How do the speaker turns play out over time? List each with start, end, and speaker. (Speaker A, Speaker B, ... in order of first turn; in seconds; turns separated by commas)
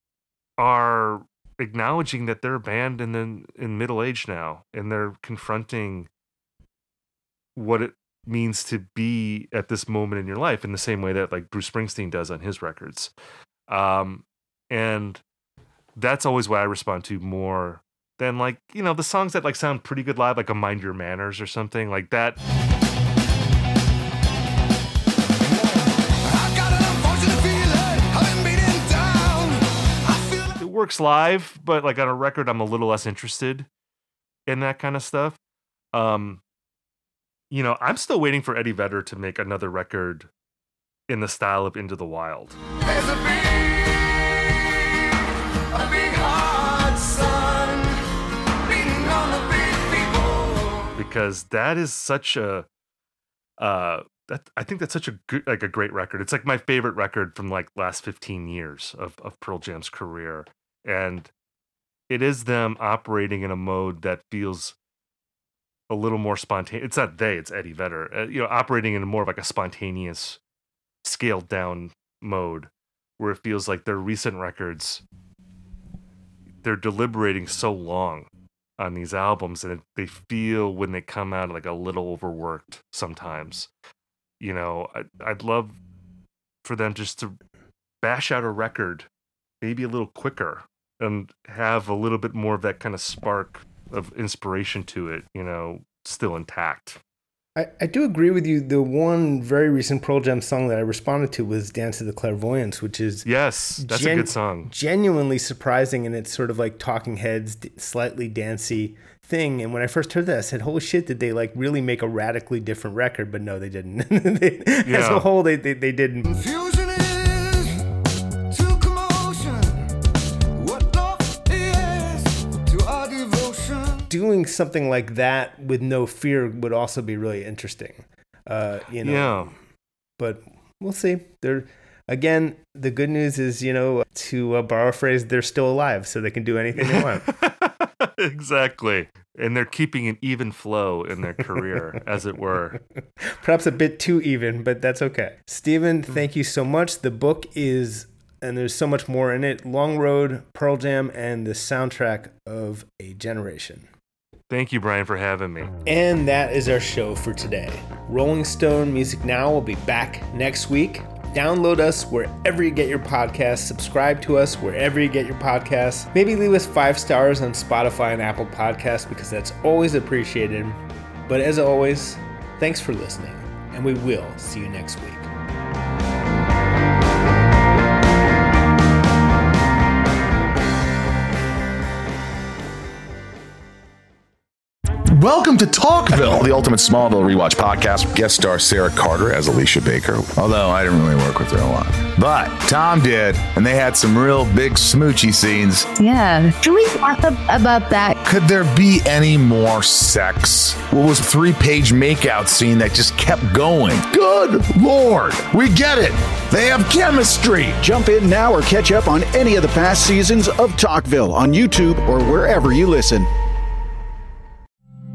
Speaker A: 0.6-6.1, Speaker A: 7.5-13.1, Speaker A: 13.7-15.2, Speaker A: 16.0-22.4, Speaker B: 26.2-30.5, Speaker A: 30.6-33.7, Speaker A: 34.5-35.4, Speaker A: 35.9-36.4, Speaker A: 37.5-40.3, Speaker A: 41.1-42.6, Speaker B: 42.8-48.0, Speaker B: 48.6-51.0, Speaker A: 51.0-52.7, Speaker A: 53.6-61.3, Speaker A: 62.1-64.8, Speaker A: 65.9-70.4, Speaker A: 71.0-75.0, Speaker A: 76.6-83.7, Speaker A: 84.4-85.8, Speaker A: 86.6-87.3, Speaker A: 88.0-89.1, Speaker A: 89.6-97.0, Speaker C: 97.5-103.3, Speaker A: 103.2-104.7, Speaker C: 103.8-116.3, Speaker A: 114.8-115.3, Speaker B: 116.2-117.7, Speaker B: 118.5-119.8, Speaker B: 120.6-124.0, Speaker C: 124.1-129.5, Speaker A: 129.0-129.5, Speaker C: 130.2-137.2, Speaker A: 136.8-142.8, Speaker C: 143.3-153.9, Speaker A: 154.5-155.7, Speaker C: 155.8-175.3, Speaker D: 185.1-195.9, Speaker E: 196.0-198.2, Speaker D: 198.2-207.8, Speaker F: 207.8-213.3